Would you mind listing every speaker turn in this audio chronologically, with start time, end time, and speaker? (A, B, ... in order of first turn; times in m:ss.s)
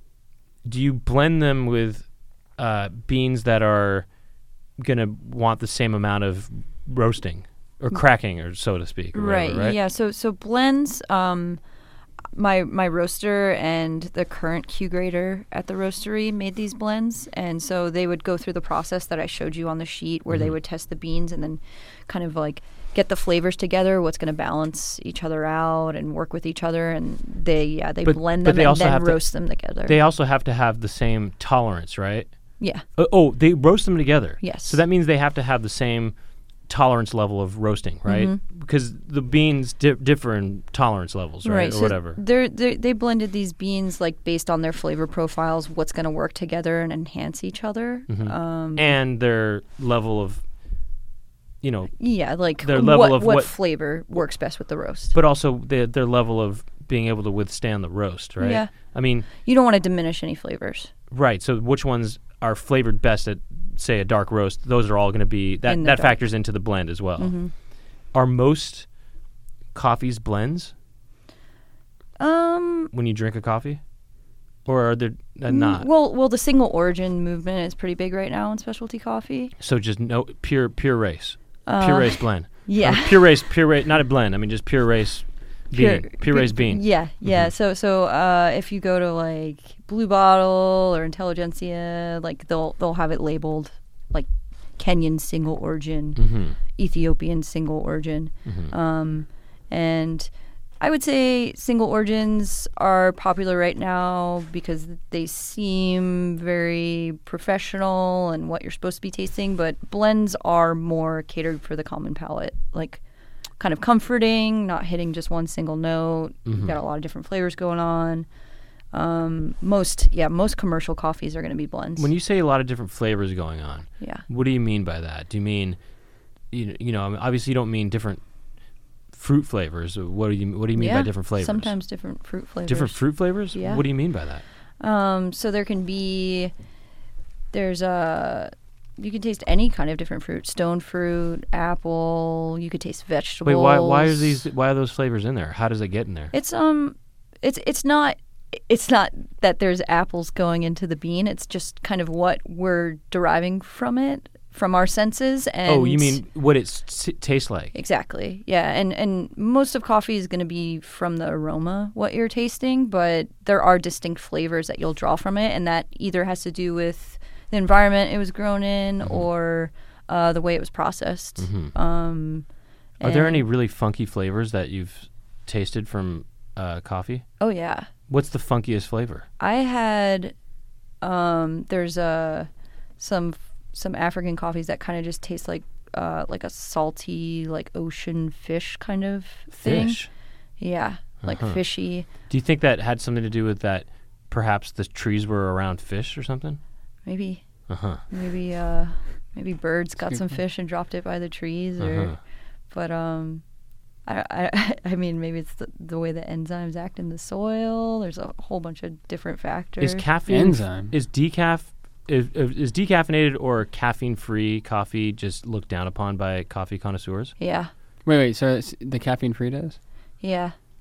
0:00.6-0:02.0 A
0:02.6-0:04.1 A
0:04.8-0:09.8 A
0:09.1-0:11.6 B
0:12.3-0:30.0 B
0:28.0-0:32.3 A
0:32.6-0:32.8 B
0:33.0-0:36.1 A
0:34.4-0:34.8 B
0:36.7-0:42.2 A
0:38.1-0:38.4 B
0:41.4-0:48.9 B
0:48.1-0:50.4 A
0:51.6-0:53.5 A
0:52.0-0:55.2 B
0:55.1-0:59.3 A
0:58.4-0:58.7 B
0:59.3-1:00.9 B
1:01.1-1:07.3 A
1:05.7-1:06.2 B
1:07.2-1:07.5 B
1:08.1-1:08.9 A
1:09.7-1:10.7 A
1:12.2-1:12.9 B
1:12.9-1:13.8 A
1:14.7-1:15.9 A
1:15.5-1:19.5 B
1:19.6-1:27.5 A
1:21.7-1:23.2 B
1:25.7-1:53.0 B
1:36.2-1:36.6 A
1:38.5-1:38.7 A
1:53.6-1:58.3 B
1:56.5-1:56.7 A
1:58.9-2:02.1 B
2:02.0-2:05.8 A
2:04.0-2:04.2 B
2:06.5-2:08.2 A
2:09.1-2:11.7 A
2:10.8-2:13.0 B
2:12.7-2:14.4 A
2:13.5-2:13.8 B
2:14.8-2:16.5 B
2:17.5-2:24.4 B
2:23.4-2:26.3 A
2:26.3-2:36.2 B
2:35.7-2:37.7 A
2:37.7-2:52.5 B
2:51.4-2:51.7 A
2:53.0-2:53.4 B
2:53.0-2:57.3 A
2:57.4-2:57.9 B
2:58.1-2:59.3 A
2:59.4-3:00.3 B
3:01.0-3:10.0 B
3:09.5-3:10.1 A
3:10.6-3:12.1 B
3:11.2-3:11.6 A
3:12.3-3:16.6 A
3:17.0-3:17.4 B
3:17.7-3:18.0 A
3:18.1-3:22.1 B
3:21.8-3:22.2 A
3:22.7-3:23.4 B
3:24.1-3:30.0 B
3:29.8-3:37.3 A
3:30.3-3:30.9 C
3:37.4-3:37.7 B
3:38.0-3:39.8 C
3:40.2-3:40.5 B